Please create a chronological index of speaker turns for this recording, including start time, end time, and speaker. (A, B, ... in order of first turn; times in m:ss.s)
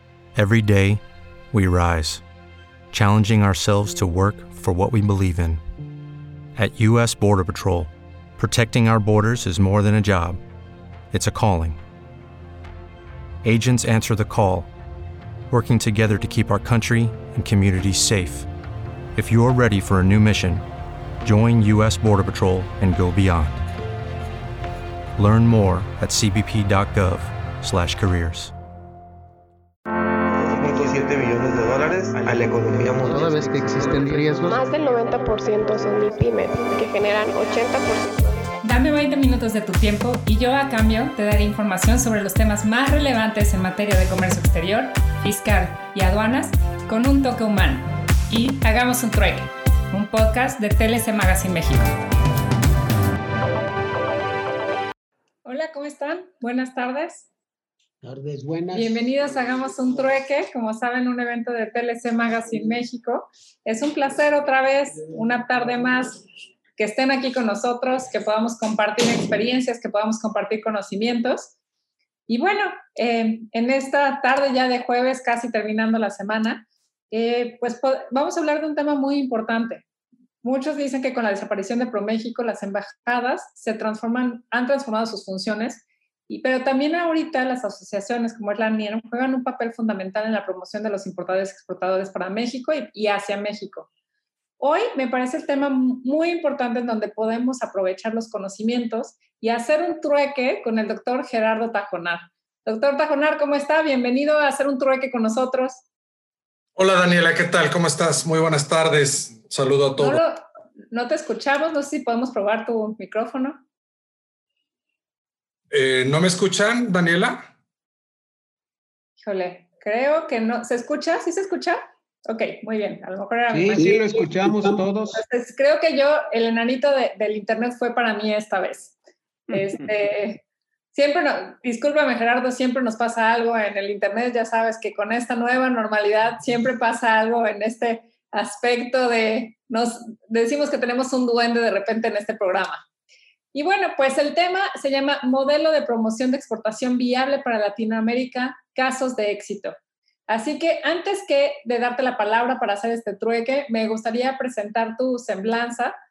0:00.4-0:02.2 A
0:02.9-0:05.6 A
0:06.6-0:10.4 A
0:11.1-0:11.8 A
0:13.4-0:14.7 A
0:15.5-0:18.5 A
0:19.2-0:20.7 A
0:21.2-0:23.7 A
0:25.2-0:28.5 A
0:30.5-0:34.2 B
0:32.9-0:34.5 C
0:34.4-0:38.2 D
0:38.6-0:51.9 E
0:55.4-0:57.3 E
0:58.0-0:59.2 C
0:58.7-1:06.2 E
1:06.8-1:11.5 E
1:12.3-1:19.8 E
1:20.4-1:33.9 E
1:34.6-1:45.8 E
1:46.8-1:50.2 F
1:50.0-1:53.6 E
1:55.7-1:57.5 F
1:59.2-2:09.0 E
2:03.6-2:05.0 C
2:04.0-2:04.9 B
2:09.5-2:10.4 E
2:10.9-2:22.8 E
2:23.5-2:29.8 E
2:30.3-2:35.9 E